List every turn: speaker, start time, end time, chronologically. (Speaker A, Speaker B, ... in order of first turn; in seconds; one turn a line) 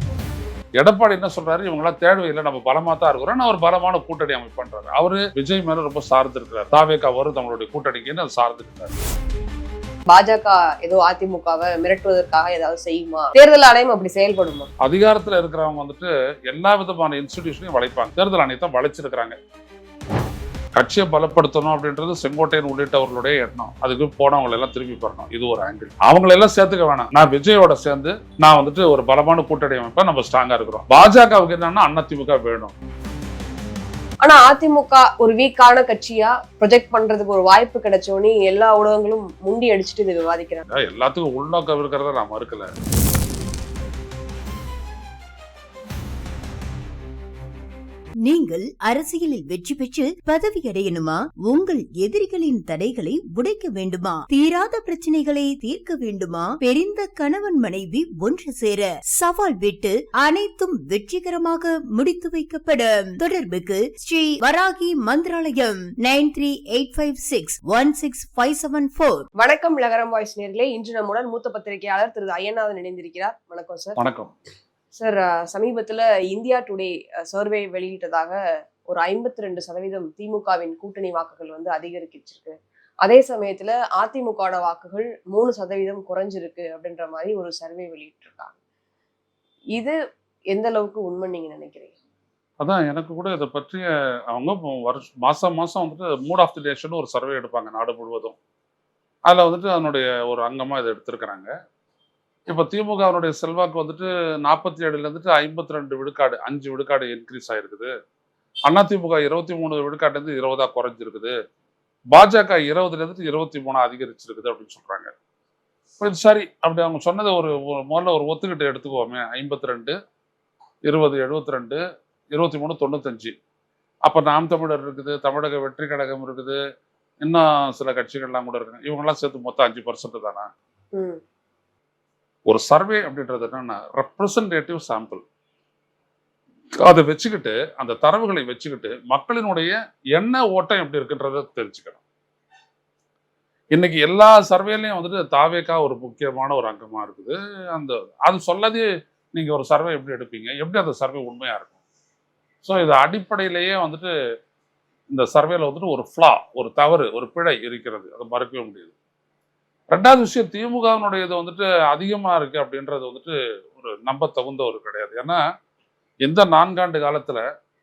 Speaker A: 0.8-9.0
Speaker B: 10.1-14.7
Speaker A: 14.8-19.4
Speaker A: 20.8-32.7
Speaker B: 34.2-40.7
Speaker A: 40.7-42.7
Speaker C: 48.2-69.3
Speaker B: 69.4-74.0
Speaker A: 74.0-74.3
Speaker B: 74.9-78.4
Speaker B: 78.9-88.5
Speaker B: 90.5-91.9
Speaker A: 92.6-98.4
Speaker A: 99.3-101.5
Speaker A: 102.5-107.9
Speaker A: 108.7-111.3
Speaker A: 112.1-115.1
Speaker A: 116.0-119.9
Speaker A: 120.8-121.8
Speaker A: 122.3-123.3
Speaker A: 124.0-126.6
Speaker A: 127.2-130.5
Speaker A: 132.5-135.2
Speaker A: 136.8-142.0
Speaker A: 143.7-151.8
Speaker A: 152.6-154.1
Speaker A: 155.1-158.9
Speaker A: 159.9-165.4
Speaker A: 166.2-167.4